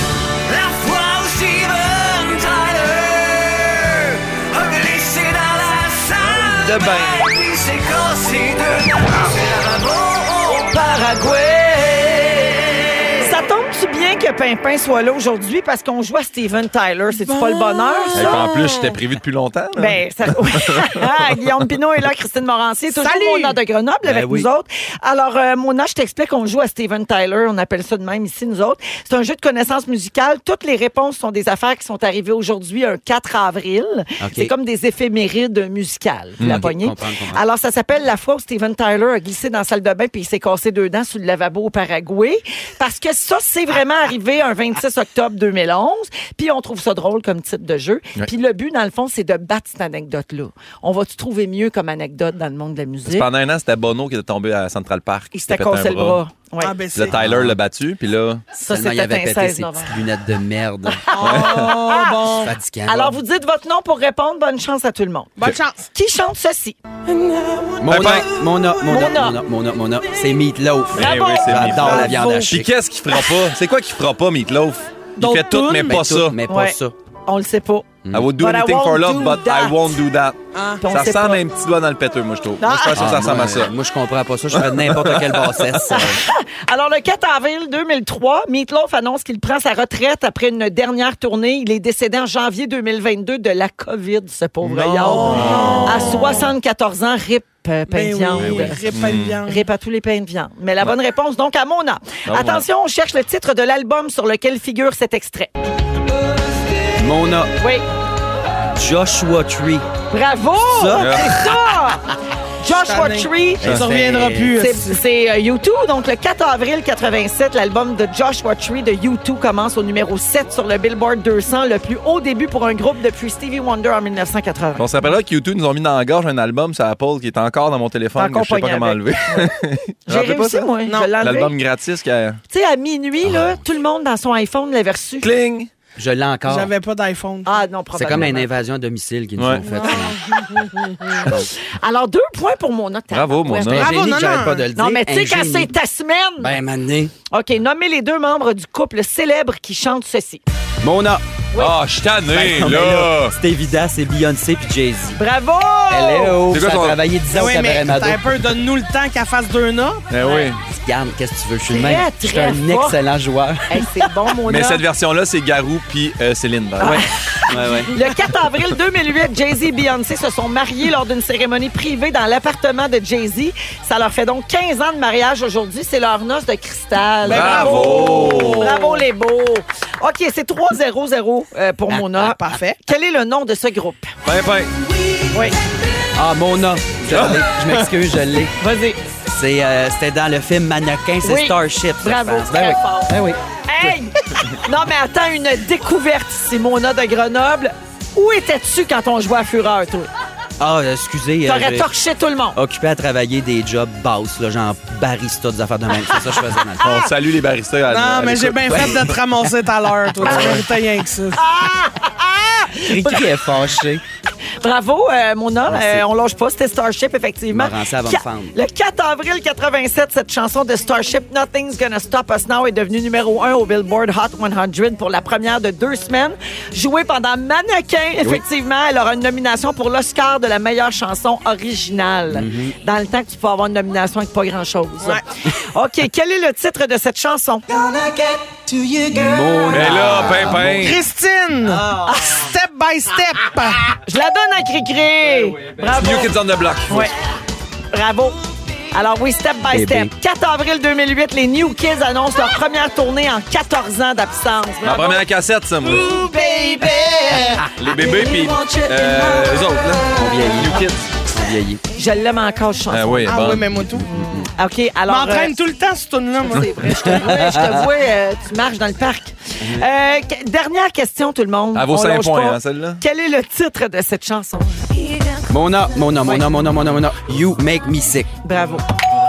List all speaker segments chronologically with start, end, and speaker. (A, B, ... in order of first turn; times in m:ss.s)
0:00.4-0:10.8 A
0:06.2-0:07.3 B
0:10.4-0:12.2 C
0:12.0-0:12.9 A
0:13.2-0:18.5 C
0:17.2-0:18.9 D
0:18.1-0:21.4 B
0:19.8-0:53.3 C
0:22.9-0:23.6 D
0:24.0-0:24.5 E
0:34.2-0:34.5 E
0:36.4-0:36.6 B
0:36.4-0:37.4 E
0:53.1-0:56.2 B
0:55.3-0:56.8 C
0:56.6-0:57.2 D
0:56.9-0:58.4 B
0:57.1-0:57.6 E
0:58.5-1:00.0 C
0:58.6-1:01.0 E
1:00.9-1:05.4 C
1:01.1-1:02.5 D
1:01.2-1:01.9 B
1:02.4-1:03.2 E
1:05.4-1:05.9 D
1:05.9-1:06.8 C
1:07.3-1:07.6 D
1:07.8-1:12.7 E
1:07.9-1:08.3 B
1:08.8-1:09.4 C
1:10.9-1:16.4 B
1:10.9-1:12.1 C
1:11.8-1:12.6 D
1:15.2-1:16.0 D
1:15.8-1:16.9 E
1:16.5-1:20.0 C
1:18.0-1:18.3 E
1:18.1-1:23.7 B
1:20.5-1:20.8 D
1:20.8-1:21.4 C
1:22.6-1:23.0 C
1:22.9-1:26.2 E
1:24.5-1:26.0 B
1:25.9-1:38.9 C
1:34.6-1:36.4 B
1:35.1-1:36.4 D
1:37.9-1:39.6 D
1:38.4-1:39.4 B
1:39.4-1:45.5 C
1:42.3-1:42.6 B
1:46.9-1:47.5 E
1:47.6-1:47.8 C
1:48.7-1:49.8 E
1:50.1-1:52.0 C
1:50.6-1:51.5 E
1:51.0-1:51.3 B
1:52.6-1:53.6 C
1:52.7-1:55.0 D
1:53.6-1:54.6 E
1:54.5-2:04.9 C
2:04.8-2:10.7 B
2:08.2-2:09.5 C
2:10.1-2:11.5 C
2:10.8-2:11.1 D
2:11.2-2:12.4 B
2:12.5-2:15.3 C
2:13.2-2:13.6 E
2:15.2-2:15.7 B
2:16.0-2:16.7 E
2:16.5-2:17.6 D
2:17.4-2:18.5 C
2:17.9-2:20.2 E
2:19.4-2:19.6 B
2:19.6-2:21.3 D
2:21.2-2:21.5 E
2:21.7-2:23.9 C
2:23.1-2:23.9 B
2:23.7-2:25.7 E
2:23.8-2:24.6 D
2:24.7-2:26.6 C
2:26.4-2:27.1 E
2:27.3-2:30.4 C
2:30.8-2:31.2 E
2:31.5-2:33.3 B
2:32.3-2:35.2 E
2:35.2-2:36.4 C
2:35.9-2:38.2 E
2:36.5-2:37.0 B
2:37.3-2:40.0 D
2:40.1-2:40.6 B
2:40.2-2:40.5 C
2:40.6-2:44.1 E
2:41.7-2:43.0 C
2:43.7-2:44.8 C
2:44.5-2:47.0 B
2:46.8-3:04.1 C
2:46.8-2:47.9 E
2:57.2-2:59.0 D
2:57.2-2:58.8 B
3:01.9-3:02.6 E
3:02.2-3:02.8 D
3:04.2-3:04.7 B
3:06.1-3:08.5 E
3:07.1-3:07.9 B
3:08.6-3:09.0 C
3:09.3-3:14.0 E
3:11.2-3:20.1 C
3:20.6-3:21.9 E
3:21.4-3:22.6 C
3:22.5-3:27.0 E
3:26.0-3:26.3 C
3:26.8-3:29.1 B
3:27.9-3:31.4 D
3:28.7-3:29.5 E
3:30.0-3:30.6 E
3:30.2-3:30.6 C
3:31.3-3:33.3 C
3:32.8-3:34.0 E
3:34.6-3:57.6 C
3:35.7-3:36.1 E
3:37.5-3:38.6 E
3:52.3-3:52.7 E
3:57.7-4:00.9 E
3:59.7-4:01.0 B
4:00.6-4:03.8 D
4:01.7-4:02.2 E
4:02.0-4:02.4 C
4:04.0-4:06.3 C
4:05.9-4:07.1 B
4:07.9-4:08.4 C
4:08.9-4:15.2 C
4:09.7-4:10.1 E
4:14.8-4:16.1 B
4:15.8-4:19.8 C
4:17.8-4:21.0 B
4:20.1-4:21.8 E
4:21.9-4:23.5 C
4:22.9-4:23.8 B
4:23.2-4:24.1 D
4:23.6-4:24.5 E
4:24.5-4:25.6 C
4:25.1-4:27.2 D
4:26.4-4:35.4 C
4:26.9-4:27.8 E
4:29.6-4:29.8 E
4:31.7-4:33.0 B
4:35.5-4:38.3 E
4:36.2-4:36.5 C
4:38.4-4:38.9 C